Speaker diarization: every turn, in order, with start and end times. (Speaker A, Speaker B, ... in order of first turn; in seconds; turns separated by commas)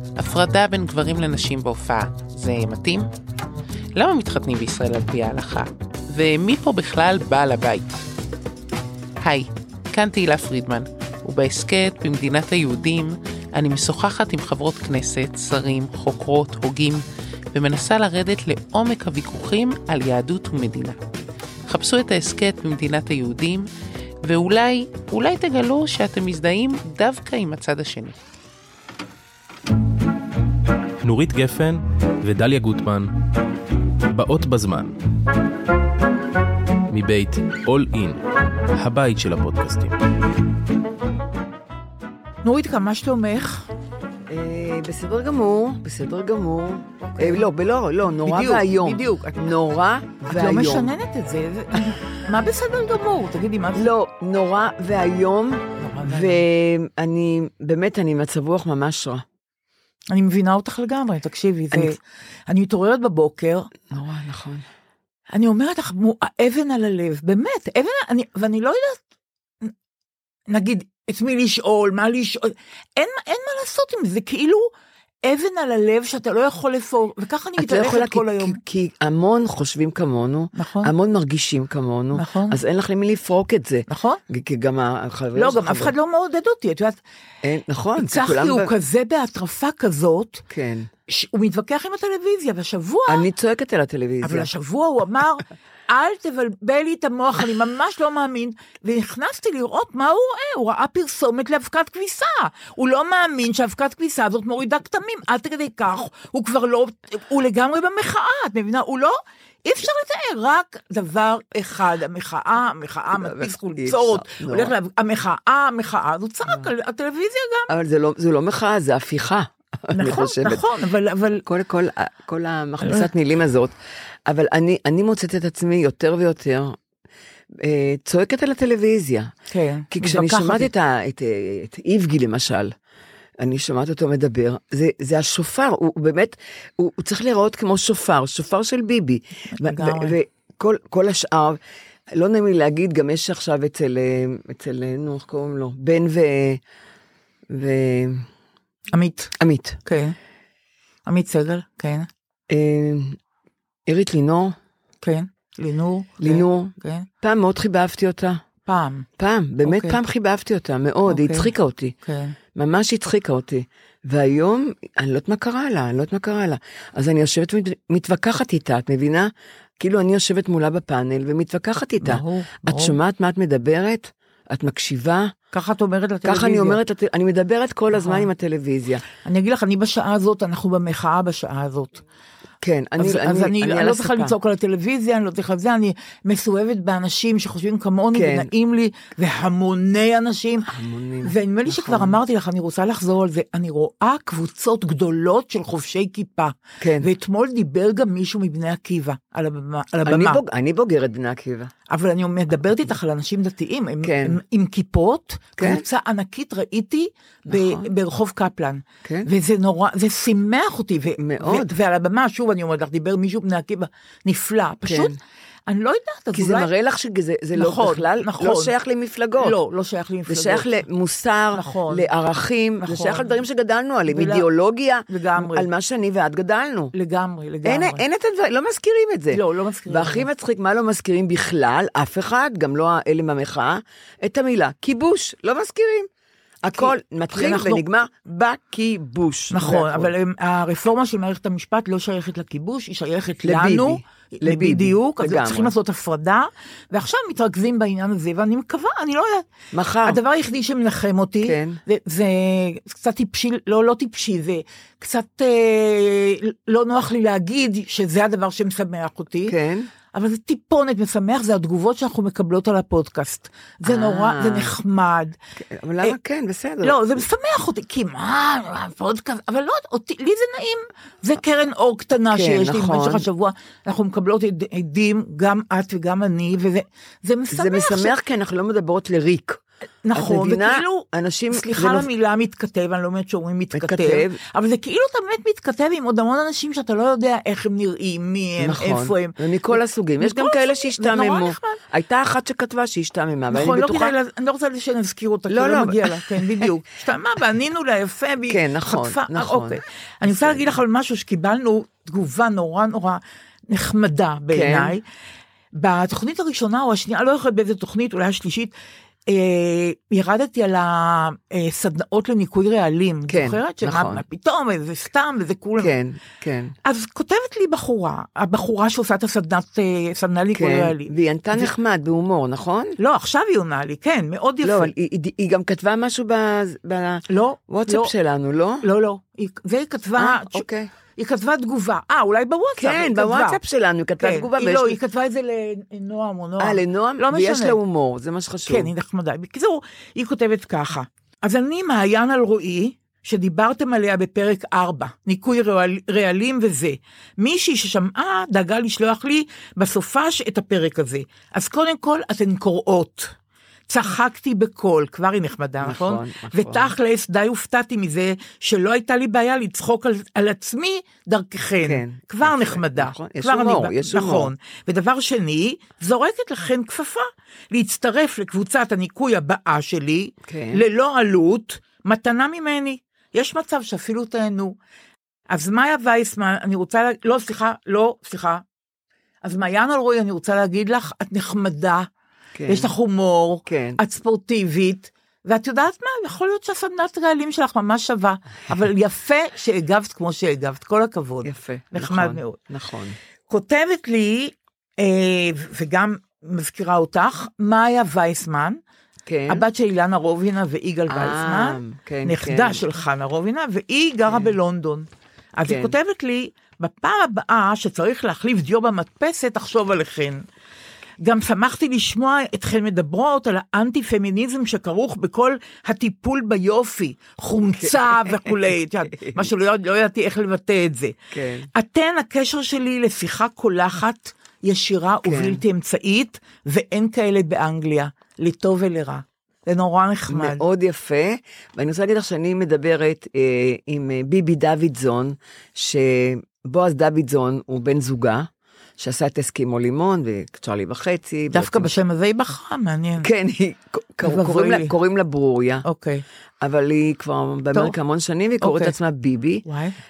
Speaker A: 0.1-3.1, Speaker A: 4.0-8.0, Speaker A: 9.2-21.0, Speaker A: 21.7-23.7, Speaker A: 24.2-28.2, Speaker B: 31.0-33.1, Speaker B: 34.1-35.0, Speaker B: 36.9-40.0, Speaker C: 42.4-43.7, Speaker D: 44.3-50.9, Speaker C: 47.1-47.5, Speaker C: 48.2-49.4, Speaker C: 50.3-53.9, Speaker D: 53.7-59.2, Speaker C: 55.8-56.4, Speaker C: 60.1-63.7, Speaker D: 63.9-64.6, Speaker C: 65.3-69.0, Speaker C: 70.5-74.7, Speaker C: 75.2-78.6, Speaker D: 77.6-85.9, Speaker C: 80.5-80.9, Speaker C: 82.1-82.6, Speaker C: 83.9-84.2, Speaker C: 85.3-87.0, Speaker D: 87.4-88.7, Speaker C: 88.0-90.4, Speaker D: 90.5-90.9, Speaker C: 91.1-93.2, Speaker D: 93.1-94.5, Speaker C: 94.2-117.7, Speaker D: 113.1-114.7, Speaker D: 117.7-120.6, Speaker C: 119.9-121.4, Speaker D: 121.5-123.7, Speaker D: 124.2-126.8, Speaker D: 127.5-129.3, Speaker C: 129.5-130.7, Speaker D: 129.9-132.8, Speaker D: 133.4-141.6, Speaker C: 139.6-140.2, Speaker D: 142.1-146.6, Speaker D: 147.5-148.2, Speaker C: 148.9-149.3, Speaker D: 149.4-149.8, Speaker C: 149.8-150.2, Speaker C: 151.1-152.1, Speaker D: 152.5-153.2, Speaker D: 153.9-154.6, Speaker C: 155.0-157.1, Speaker D: 156.2-158.4, Speaker C: 158.7-159.1, Speaker D: 159.2-161.9, Speaker C: 159.7-160.0, Speaker C: 161.1-161.5, Speaker C: 162.0-162.4, Speaker D: 162.5-175.3, Speaker C: 172.0-173.0, Speaker C: 175.5-176.8, Speaker D: 176.2-179.0, Speaker C: 177.9-178.3, Speaker C: 179.2-182.0, Speaker D: 182.6-184.3, Speaker C: 183.0-190.7, Speaker D: 188.1-188.5, Speaker D: 190.7-192.2, Speaker C: 191.2-200.4, Speaker D: 196.8-197.1, Speaker D: 200.1-201.7, Speaker C: 201.9-216.7, Speaker D: 204.0-204.4, Speaker D: 205.6-205.8, Speaker D: 207.5-207.9, Speaker D: 211.2-211.7, Speaker D: 214.8-215.2, Speaker D: 216.3-219.6, Speaker C: 217.5-218.7, Speaker C: 219.4-220.7, Speaker D: 220.3-226.9, Speaker C: 221.5-222.1, Speaker C: 222.8-223.4, Speaker C: 224.1-224.5, Speaker C: 225.1-225.7, Speaker C: 226.9-228.0, Speaker D: 227.7-236.1, Speaker C: 229.3-230.3, Speaker D: 236.6-240.1, Speaker C: 236.7-237.8, Speaker C: 239.5-249.5, Speaker D: 243.4-245.7, Speaker D: 249.7-250.2, Speaker C: 250.0-259.5, Speaker D: 251.4-251.8, Speaker D: 259.4-259.9, Speaker C: 260.1-265.3, Speaker D: 263.8-264.7, Speaker D: 265.6-267.2, Speaker C: 266.8-278.1, Speaker D: 272.3-273.3, Speaker D: 277.5-279.6, Speaker C: 280.0-291.8, Speaker D: 280.1-282.1, Speaker D: 283.8-284.4, Speaker D: 288.6-294.1, Speaker C: 293.5-305.0, Speaker D: 295.5-296.6, Speaker D: 298.5-300.8, Speaker D: 304.5-304.9, Speaker C: 305.7-308.7, Speaker C: 309.3-315.9, Speaker D: 313.3-314.2, Speaker D: 315.8-316.7, Speaker C: 316.8-321.7, Speaker D: 320.5-323.0, Speaker C: 323.0-324.9, Speaker D: 324.6-328.8, Speaker C: 327.3-328.1, Speaker C: 328.8-330.6, Speaker D: 330.2-330.9, Speaker C: 331.1-333.6, Speaker D: 332.8-335.0, Speaker C: 334.2-337.8, Speaker D: 336.6-338.9, Speaker C: 338.6-353.3, Speaker C: 353.9-374.8, Speaker D: 355.8-356.9, Speaker D: 361.8-364.5, Speaker D: 370.4-370.8, Speaker C: 375.5-378.6, Speaker C: 379.4-382.1, Speaker D: 382.5-382.9, Speaker C: 382.7-392.6, Speaker D: 383.6-384.0, Speaker D: 391.4-393.2, Speaker C: 393.5-398.8, Speaker D: 399.2-399.6, Speaker C: 399.5-410.4, Speaker D: 401.1-402.8, Speaker D: 404.3-404.5, Speaker D: 405.6-405.9, Speaker C: 411.2-421.1, Speaker D: 417.8-418.5, Speaker D: 419.2-419.5, Speaker D: 421.3-421.7, Speaker C: 421.7-430.6, Speaker D: 425.2-425.6, Speaker D: 430.3-441.9, Speaker C: 441.5-443.3, Speaker D: 443.2-445.8, Speaker C: 444.2-444.9, Speaker C: 445.8-446.2, Speaker D: 446.6-449.6, Speaker C: 448.6-448.9, Speaker C: 449.6-449.9